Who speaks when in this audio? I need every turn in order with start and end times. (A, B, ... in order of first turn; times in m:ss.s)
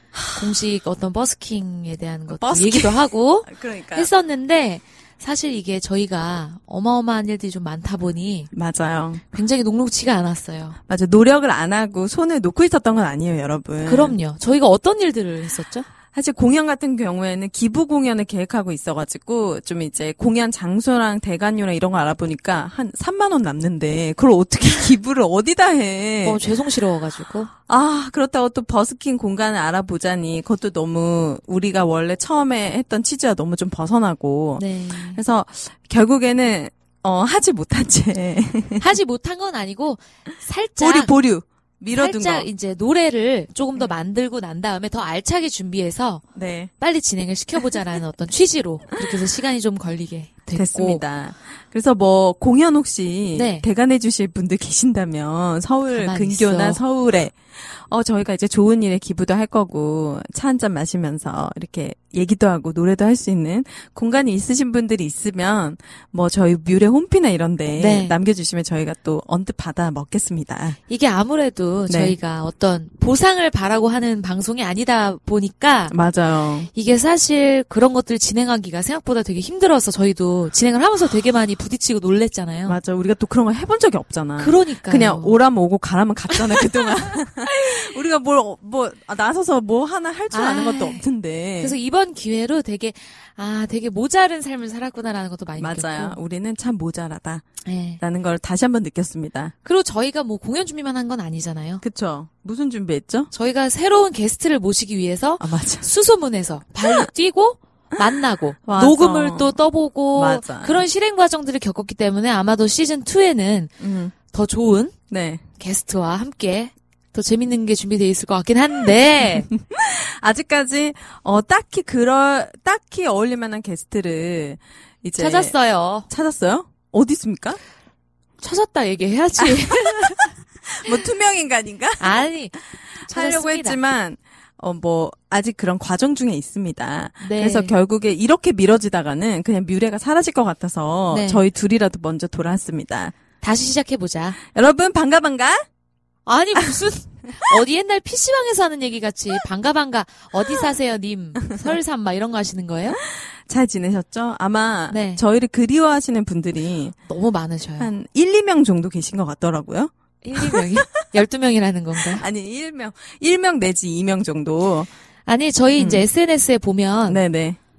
0:00.2-0:00.5 A
0:00.3-0:08.5 B
0:02.3-0:04.1 A
0:08.5-0:09.2 A
0:09.3-0:10.8 B
0:10.9-0:14.2 A
0:13.8-0:15.9 B
0:16.1-0:26.6 A
0:26.2-0:27.5 B
0:27.7-0:38.9 A
0:34.6-0:35.2 B
0:38.8-0:41.1 B
0:40.8-0:42.5 A
0:41.9-0:46.2 B
0:46.4-0:46.7 A
0:46.8-0:51.0 B
0:50.5-1:10.8 A
0:53.4-0:53.7 B
0:55.9-0:56.8 B
1:07.8-1:08.2 B
1:10.9-1:16.0 B
1:11.9-1:12.2 A
1:15.9-1:16.7 A
1:16.7-1:22.8 B
1:22.6-1:31.8 A
1:24.4-1:25.4 B
1:26.3-1:27.8 B
1:30.3-1:31.1 B
1:31.6-1:36.2 B
1:35.6-1:37.4 A
1:37.6-1:38.0 B
1:38.0-1:39.5 A
1:39.6-1:41.8 B
1:41.8-1:43.3 A
1:43.3-1:53.7 B
1:45.4-1:45.9 A
1:48.7-1:49.6 A
1:50.1-1:50.8 A
1:53.8-1:54.2 A
1:54.3-1:55.0 B
1:55.1-1:55.4 A
1:55.6-1:59.5 B
1:59.2-2:05.6 A
2:05.2-2:06.1 B
2:06.1-2:07.6 A
2:08.4-2:10.3 B
2:09.4-2:23.1 A
2:12.0-2:13.8 B
2:17.2-2:17.8 B
2:21.1-2:21.4 B
2:23.4-2:24.4 B
2:24.4-2:25.6 A
2:26.3-2:33.0 B
2:33.5-2:37.0 A
2:34.9-2:35.2 B
2:37.1-2:37.9 B
2:37.8-2:40.9 A
2:40.2-2:42.2 B
2:42.0-2:44.9 A
2:45.3-2:47.2 B
2:45.8-2:46.0 A
2:47.1-2:47.6 A